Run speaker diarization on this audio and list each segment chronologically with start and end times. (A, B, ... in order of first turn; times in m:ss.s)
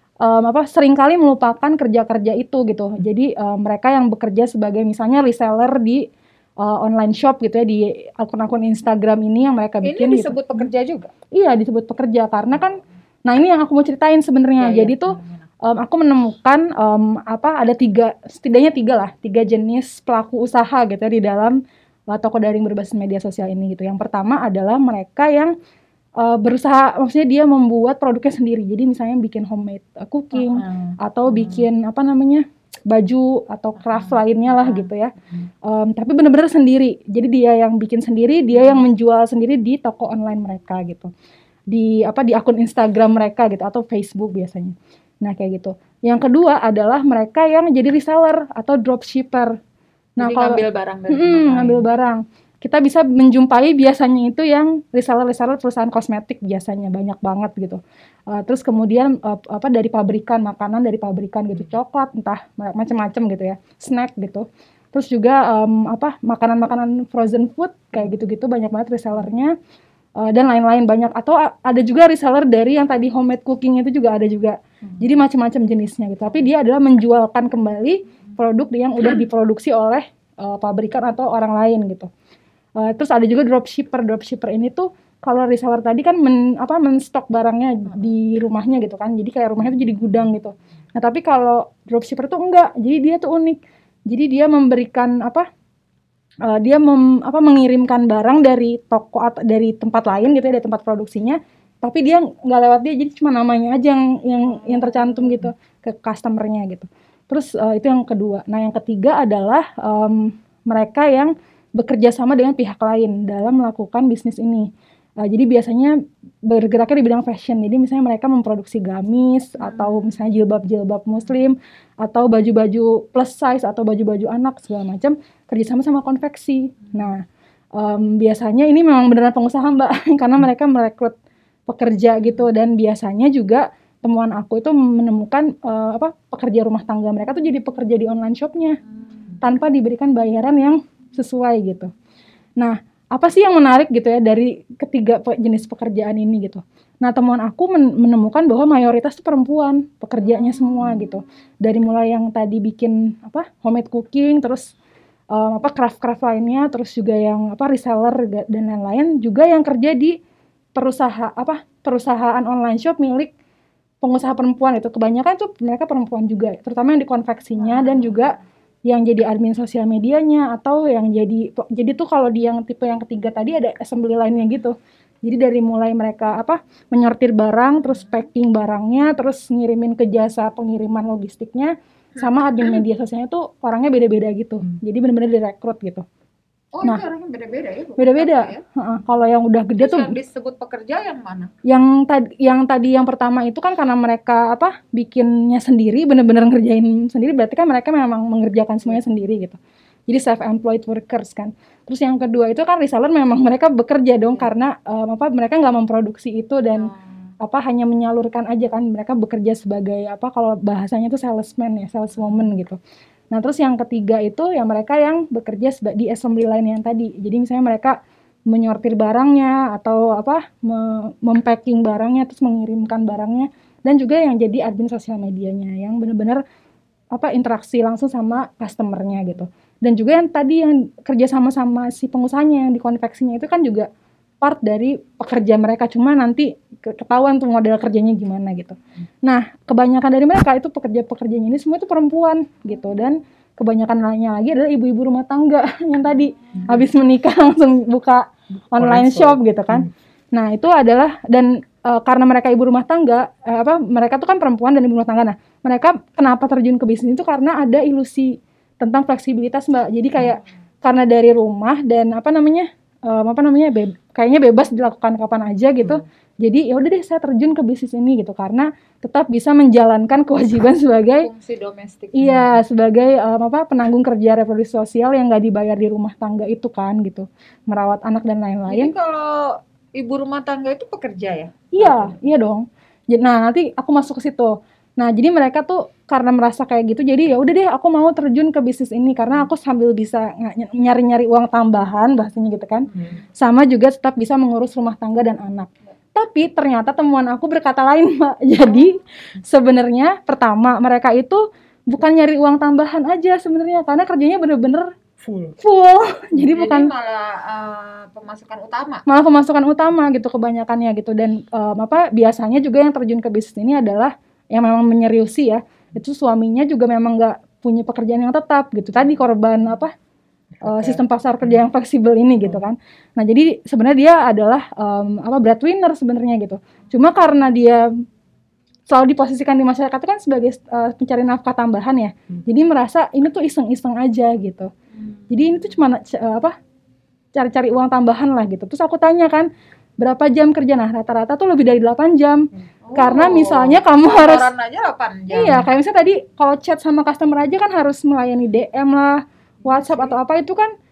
0:00.2-0:06.1 A
0:06.6-0:10.6 A
0:09.8-0:11.1 B
0:11.3-0:21.6 A
0:14.6-0:15.5 B
0:22.1-0:25.5 A
0:26.2-0:41.1 A
0:30.3-0:31.7 B
0:33.8-0:34.9 B
0:38.5-0:38.8 B
0:41.7-0:49.6 A
0:50.2-1:09.6 A
0:50.2-0:51.8 B
1:10.2-1:22.1 A
1:22.8-1:35.5 A
1:27.9-1:28.2 B
1:36.4-1:54.7 A
1:44.5-1:45.4 B
1:55.2-2:07.2 A
1:59.6-2:00.2 B
2:06.8-2:07.1 B
2:07.8-2:11.2 A
2:11.7-2:18.8 A
2:19.4-2:21.9 A
2:22.6-2:34.7 A
2:35.3-2:40.2 A
2:40.8-2:43.3 A
2:44.0-3:06.0 A
2:47.6-2:48.3 B
3:02.2-3:02.8 B
3:06.7-3:08.6 B
3:08.0-3:10.2 A
3:09.8-3:11.5 B
3:11.6-3:19.6 A
3:20.1-3:26.9 A
3:26.7-3:27.1 B
3:27.4-3:32.8 A
3:32.2-3:32.4 B
3:33.3-3:38.0 A
3:38.5-3:46.4 A
3:47.1-3:53.9 A
3:54.4-4:31.3 A
4:08.8-4:09.9 C
4:31.2-4:32.6 B
4:32.2-4:38.9 A
4:38.7-4:42.1 B
4:41.7-5:04.9 A
5:05.2-5:05.6 C
5:05.6-5:06.9 A
5:06.4-5:09.0 B
5:09.1-5:19.9 A
5:20.6-5:27.9 A
5:20.7-5:21.0 C
5:28.9-5:34.7 A
5:34.9-5:35.6 B
5:35.3-5:36.6 A
5:37.3-5:39.5 A
5:40.0-5:44.5 A
5:42.8-5:45.7 B
5:45.3-5:50.7 A
5:49.6-5:50.1 B